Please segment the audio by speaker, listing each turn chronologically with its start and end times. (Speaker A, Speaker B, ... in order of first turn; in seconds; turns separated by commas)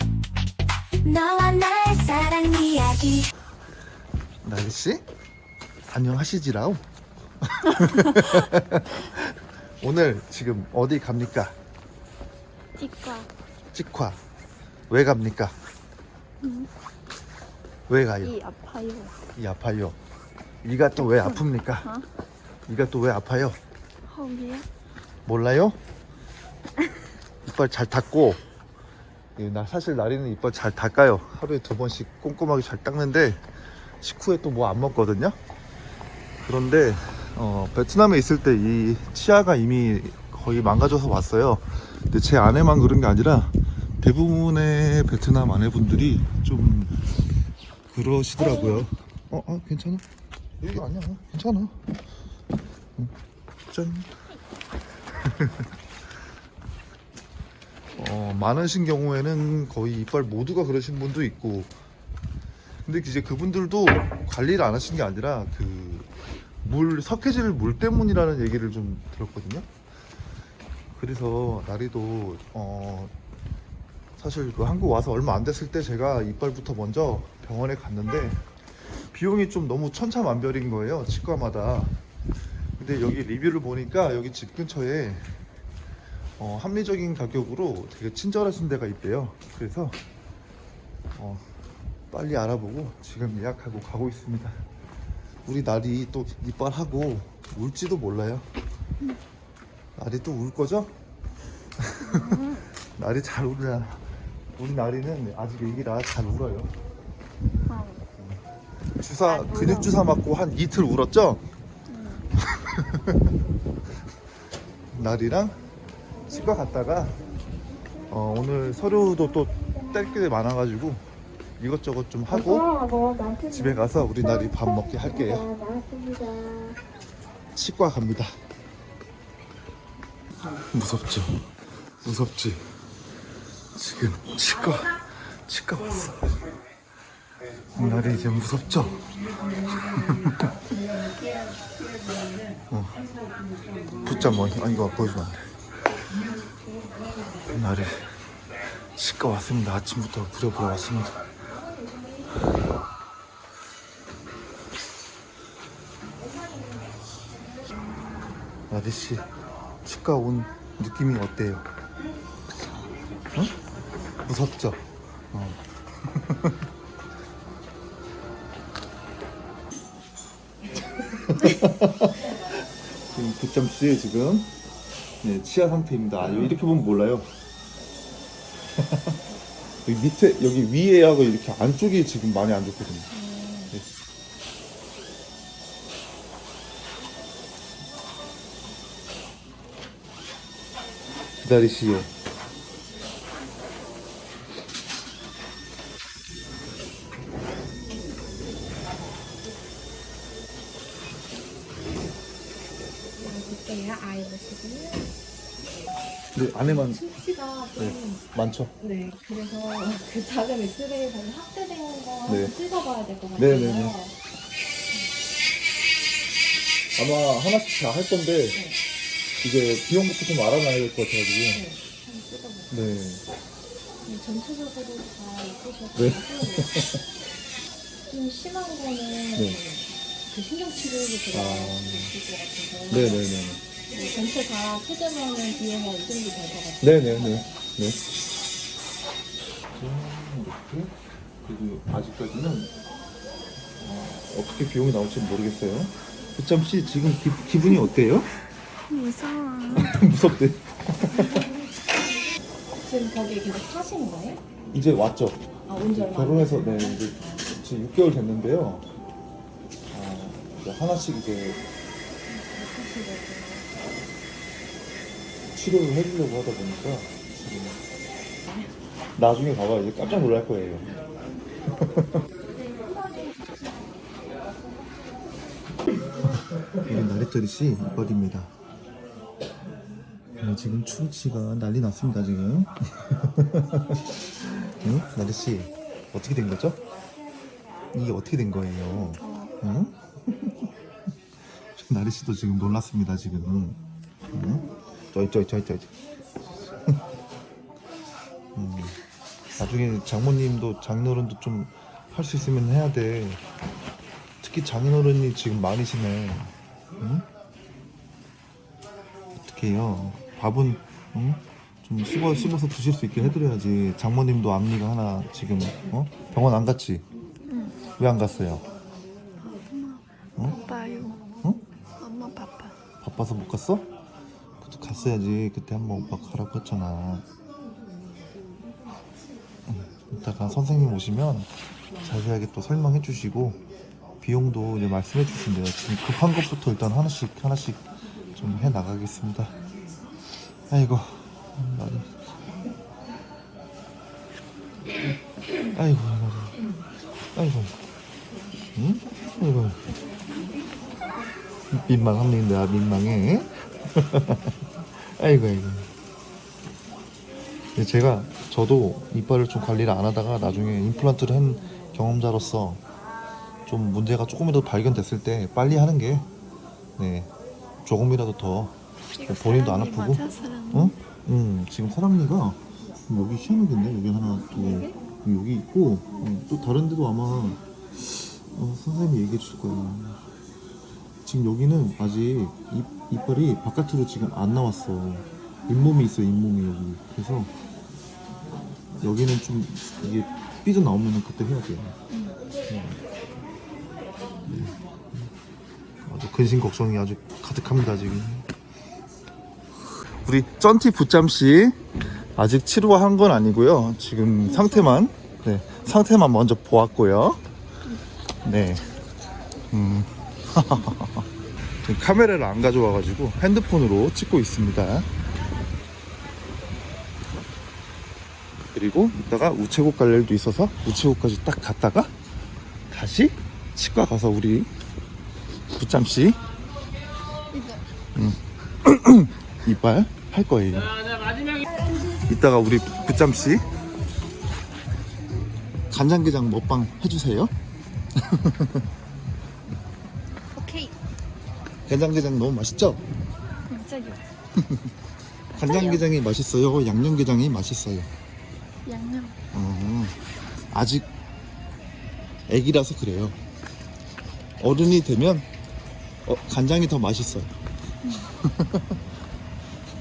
Speaker A: 1.0-3.3, Speaker B: 4.4-5.0, Speaker B: 5.9-6.8, Speaker B: 7.4-11.5, Speaker C: 12.8-13.3, Speaker B: 13.7-14.2, Speaker B: 14.9-15.5, Speaker C: 16.4-16.7, Speaker B: 17.9-18.4, Speaker C: 18.2-19.1, Speaker B: 19.4-20.0, Speaker B: 20.6-21.9, Speaker B: 22.7-23.6, Speaker C: 24.1-24.6, Speaker B: 25.2-25.8, Speaker B: 27.4-28.4, Speaker B: 29.4-33.4, Speaker B: 34.0-35.4, Speaker B: 36.4-46.9, Speaker B: 47.9-50.0, Speaker B: 50.6-51.8, Speaker B: 53.7-54.1, Speaker B: 55.2-55.6, Speaker B: 58.0-61.7, Speaker B: 62.9-66.1, Speaker B: 66.6-69.7, Speaker B: 70.9-73.1, Speaker B: 74.2-78.4, Speaker B: 79.1-81.9, Speaker B: 82.8-85.3, Speaker B: 86.4-90.0, Speaker B: 91.1-91.4, Speaker B: 92.1-94.6, Speaker B: 95.4-98.5, Speaker B: 100.0-100.9, Speaker B: 101.8-102.4, Speaker C: 102.0-102.7, Speaker B: 103.0-104.0, Speaker B: 104.6-106.7, Speaker C: 107.7-108.1, Speaker B: 109.0-111.4, Speaker C: 109.3-109.9, Speaker C: 111.9-112.3, Speaker B: 112.5-113.2, Speaker B: 114.9-115.6, Speaker B: 116.2-117.2, Speaker B: 118.1-121.0, Speaker B: 121.6-125.5, Speaker B: 127.5-128.3, Speaker B: 130.7-132.7, Speaker B: 133.7-136.4, Speaker B: 137.7-139.0, Speaker B: 139.9-140.5, Speaker B: 142.7-143.0, Speaker B: 144.0-145.5, Speaker B: 147.5-148.1, Speaker B: 148.9-151.3, Speaker B: 158.7-159.3, Speaker B: 159.8-161.7, Speaker B: 164.2-166.5, Speaker B: 171.2-174.5, Speaker B: 175.2-177.3, Speaker B: 178.8-179.2, Speaker B: 179.8-183.1, Speaker D: 183.1-183.7, Speaker B: 191.4-192.1, Speaker D: 203.2-205.1, Speaker B: 206.3-207.1, Speaker D: 206.6-208.2, Speaker B: 207.8-208.7, Speaker D: 208.8-214.2, Speaker B: 212.3-212.5, Speaker B: 213.3-213.9, Speaker B: 216.9-218.6, Speaker D: 218.5-218.8, Speaker B: 219.4-221.6, Speaker D: 221.5-222.8, Speaker B: 222.7-223.2, Speaker D: 224.0-226.8, Speaker B: 225.9-227.0, Speaker D: 228.1-233.3, Speaker B: 229.3-229.6, Speaker B: 231.3-232.1, Speaker B: 232.9-233.6, Speaker D: 233.9-237.5, Speaker B: 236.8-238.0, Speaker B: 239.7-242.7, Speaker B: 243.8-248.3, Speaker C: 248.9-250.0, Speaker B: 249.8-251.5, Speaker D: 252.7-254.4, Speaker B: 254.7-258.8, Speaker D: 255.7-257.5, Speaker B: 259.9-261.6, Speaker D: 262.3-263.7, Speaker B: 265.5-267.8, Speaker B: 269.2-270.9, Speaker B: 271.7-272.1, Speaker D: 273.0-273.4, Speaker B: 276.8-278.5, Speaker B: 280.4-286.8, Speaker B: 287.9-290.7, Speaker C: 289.2-289.5, Speaker B: 291.8-293.8, Speaker B: 294.3-295.9, Speaker B: 298.6-299.0, Speaker B: 299.6-303.4, Speaker B: 304.4-307.3, Speaker B: 309.4-317.0, Speaker C: 317.4-317.8, Speaker B: 318.0-318.6, Speaker C: 319.4-321.2, Speaker C: 322.0-322.7, Speaker B: 323.0-323.9, Speaker B: 324.6-327.2, Speaker B: 329.7-331.5, Speaker B: 332.0-333.6, Speaker B: 334.2-339.6, Speaker B: 340.7-342.1, Speaker B: 345.7-346.6, Speaker B: 347.3-347.8, Speaker B: 348.7-349.8, Speaker B: 351.7-355.9, Speaker B: 357.8-362.8, Speaker B: 363.7-366.3, Speaker B: 367.0-367.3, Speaker B: 367.8-380.2, Speaker C: 369.1-370.9, Speaker C: 374.6-374.9, Speaker B: 381.2-387.5, Speaker B: 389.0-391.9, Speaker B: 392.7-393.0, Speaker B: 394.4-395.3, Speaker B: 396.0-398.4, Speaker B: 400.2-401.8, Speaker B: 402.4-407.4, Speaker C: 404.5-404.9, Speaker B: 408.4-408.9, Speaker B: 409.7-411.3, Speaker B: 411.8-415.1, Speaker B: 418.7-422.1, Speaker B: 422.9-424.7, Speaker B: 425.7-426.4, Speaker C: 427.5-427.8, Speaker B: 428.1-430.9, Speaker B: 432.2-433.6, Speaker B: 435.9-437.5, Speaker B: 438.1-438.8, Speaker C: 440.6-440.9, Speaker B: 441.9-443.0, Speaker C: 443.7-444.2, Speaker B: 444.6-444.9, Speaker B: 445.5-448.1, Speaker C: 445.6-446.0, Speaker C: 448.8-449.4, Speaker B: 449.5-450.2, Speaker B: 450.7-451.1, Speaker B: 452.5-453.4, Speaker B: 454.6-455.5, Speaker B: 456.2-457.5, Speaker C: 458.0-458.3, Speaker B: 458.4-459.0